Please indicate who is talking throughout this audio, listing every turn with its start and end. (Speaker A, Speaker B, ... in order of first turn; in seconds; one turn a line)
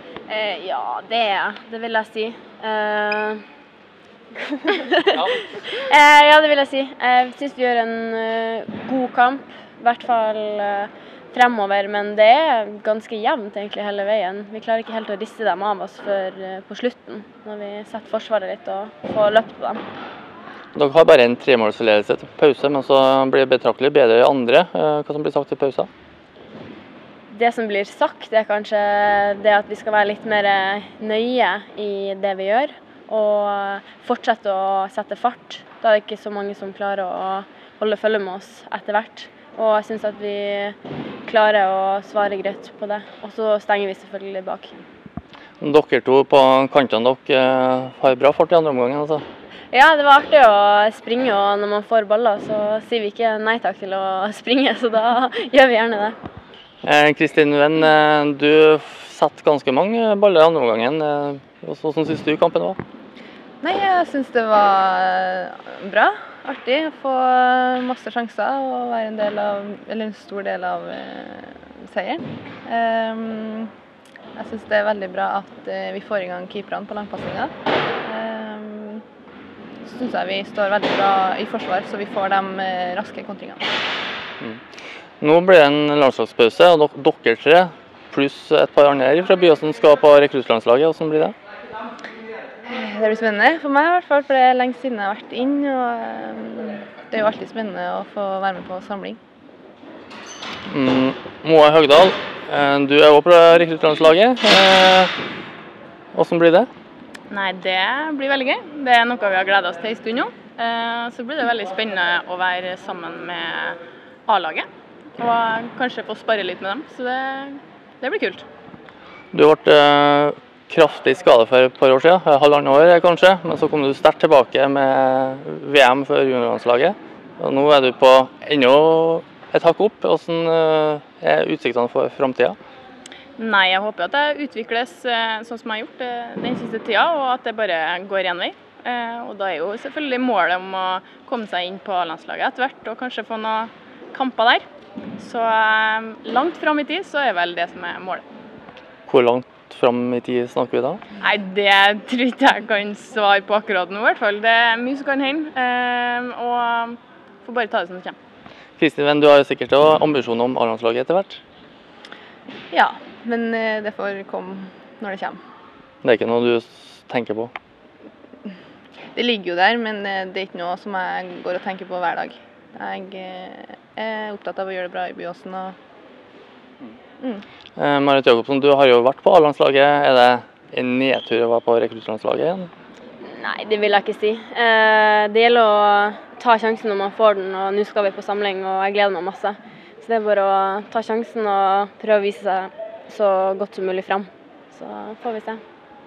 Speaker A: 0.3-3.4
Speaker A: 4.3-19.8
Speaker B: 20.7-25.9
Speaker A: 27.3-44.8
Speaker B: 45.6-49.2
Speaker A: 49.7-56.1
Speaker B: 56.8-62.8
Speaker C: 63.6-73.7
Speaker C: 74.3-77.5
Speaker C: 78.0-79.0
Speaker C: 79.8-83.7
Speaker B: 85.2-91.3
Speaker C: 92.7-99.2
Speaker B: 100.7-105.1
Speaker B: 106.1-106.7
Speaker D: 107.3-118.4
Speaker B: 119.3-132.6
Speaker D: 133.4-144.7
Speaker D: 145.2-148.2
Speaker B: 149.1-151.0
Speaker D: 151.2-158.2
Speaker B: 158.8-161.4
Speaker C: 162.7-165.4
Speaker B: 166.0-167.5
Speaker C: 169.1-175.7
Speaker B: 177.8-182.7
Speaker A: 183.2-195.6